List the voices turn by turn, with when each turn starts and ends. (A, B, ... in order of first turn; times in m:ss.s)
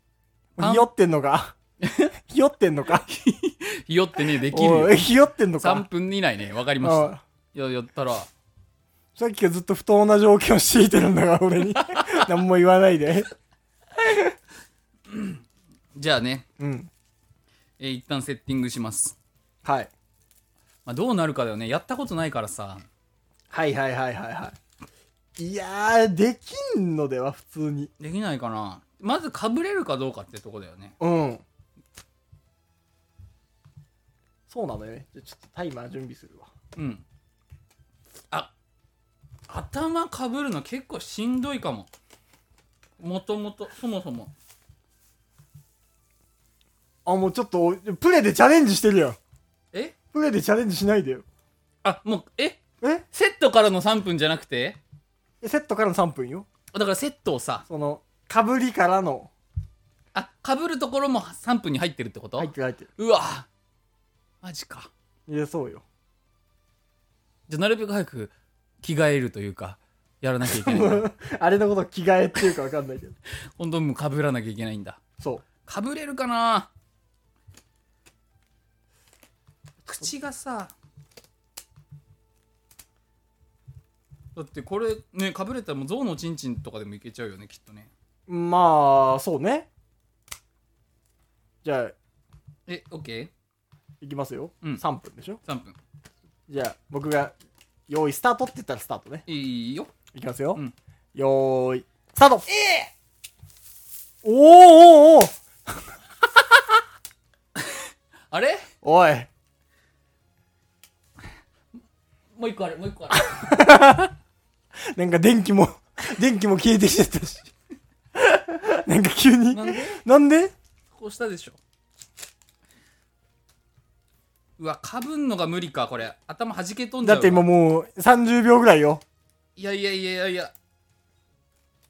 0:00.6-0:00.9 A
0:00.6-0:01.5 B
0:01.8-0:02.1 A
0:02.3-0:03.1 B
0:03.1-0:05.0 A
0:04.5-0:05.8 B
0:05.6-0:08.3 A
0:06.8-0:07.2 B
0:09.2-0:13.3 B
0:11.8-0:12.3 A
0:14.0-0:14.3 B
0:15.1-0:15.4 A
0:15.9-0:16.4 A
0:16.6-0:16.9 B
0:17.8-0:19.2 A
0:19.6-0:19.9 B
0:20.8-0:22.9 A
0:23.5-0:24.6 B
0:25.4-0:27.9 B
0:28.0-0:31.0 A
0:31.0-0:31.4 B
0:34.5-0:36.5 B
0:36.8-0:37.0 A
0:39.5-0:41.9 A
0:43.0-0:44.3 A
0:47.1-0:49.2 B
0:50.1-0:51.2 B
0:51.8-0:54.8 A
0:55.4-0:56.5 B
0:56.7-0:57.7 A
0:57.7-0:59.3 B
1:00.1-1:03.5 A
1:02.4-1:02.9 B
1:04.4-1:04.9 A
1:05.3-1:05.8 B
1:07.5-1:11.1 A
1:10.4-1:13.2 B
1:13.6-1:15.0 A
1:15.6-1:16.7 A
1:19.8-1:20.7 A
1:24.4-1:27.9 A
1:28.3-1:29.7 B
1:31.6-1:31.9 B
1:32.7-1:33.3 A
1:34.0-1:35.4 B
1:35.4-1:35.8 A
1:36.5-1:37.4 B
1:37.9-1:39.3 B
1:39.3-1:39.9 A
1:40.1-1:40.6 B
1:41.2-1:42.5 B
1:42.5-1:42.9 A
1:44.2-1:45.4 B
1:47.6-1:48.7 A
1:48.8-1:49.3 B
1:52.3-1:53.5 A
1:53.1-1:54.1 B
1:54.9-1:57.5 B
1:58.2-2:00.5 B
1:59.5-2:00.0 A
2:00.9-2:01.6 A
2:04.6-2:07.5 A
2:07.0-2:09.0 B
2:09.6-2:10.5 A